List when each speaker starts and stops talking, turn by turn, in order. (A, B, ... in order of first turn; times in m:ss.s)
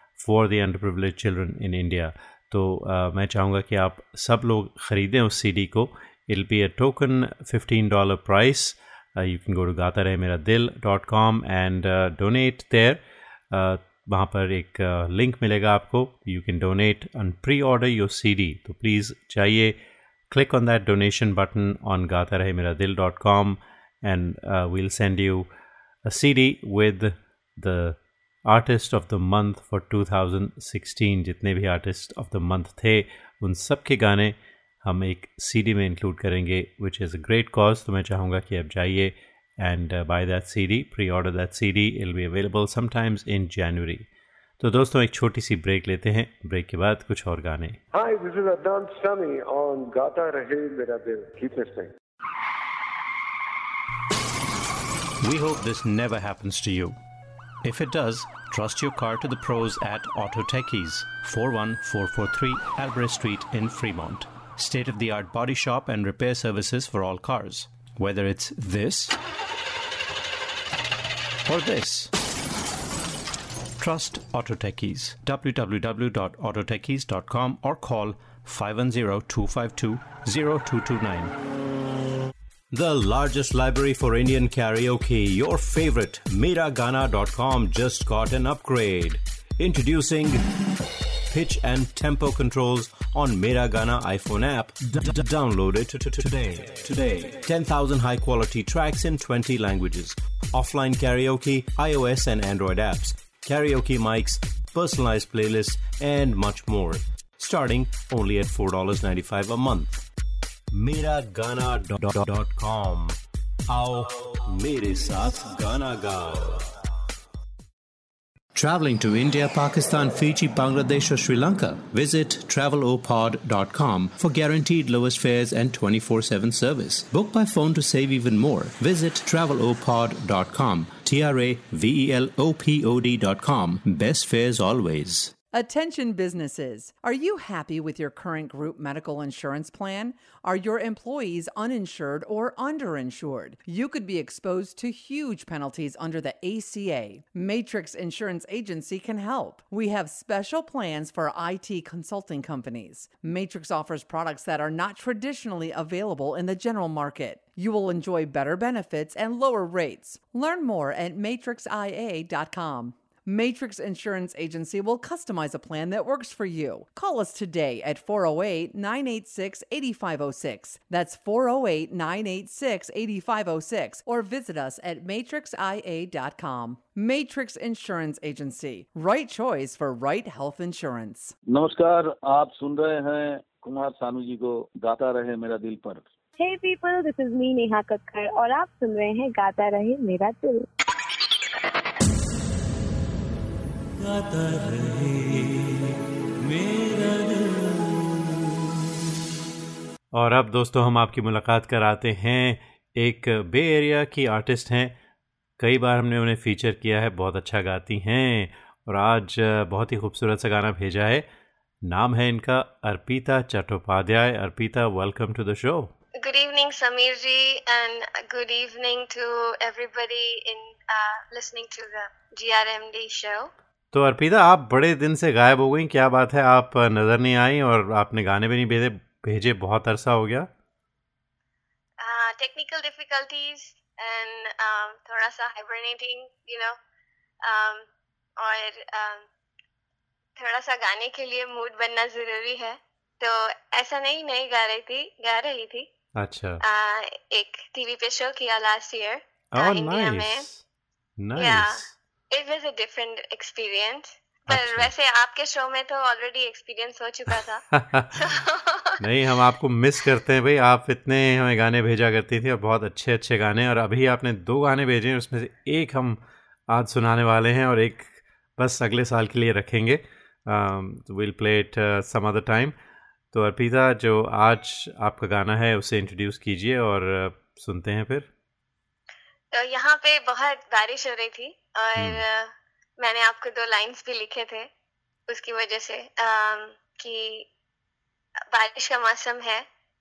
0:00.2-0:13.0 A
0:13.5-0:19.8 A
0:20.3-0:25.5 A
0:26.0-0:44.0 A
0:44.6-0:47.8 A
0:47.9-0:51.9 B
0:55.2-0:57.0 A
0:57.6-1:09.1 A
1:11.5-1:12.1 A
1:13.8-1:21.3 A
1:22.7-1:30.4 A
1:31.3-1:50.0 A
1:50.7-1:56.7 A
1:58.5-2:15.3 A
2:15.5-3:01.3 C
3:01.5-3:06.0 D
3:06.4-3:10.6 E
3:14.0-3:15.4 A
3:16.5-3:17.6 A
3:20.1-3:24.9 A
3:25.6-3:31.2 A
3:31.8-3:35.9 A
3:36.2-3:43.5 F
3:43.9-3:50.5 A
3:52.0-3:56.8 F
3:57.4-3:59.3 F
4:00.4-4:05.9 F
4:06.2-4:06.6 A
4:06.6-4:10.5 F
4:09.5-4:10.6 A
4:11.2-4:11.9 A
4:11.4-4:17.6 F
4:14.5-4:14.9 A
4:17.7-4:18.1 A
4:18.1-4:19.4 F
4:19.0-4:32.7 A
4:33.3-4:38.3 A
4:39.5-4:44.7 F
4:42.0-4:42.2 A
4:45.3-4:47.5 F
4:48.5-4:49.6 F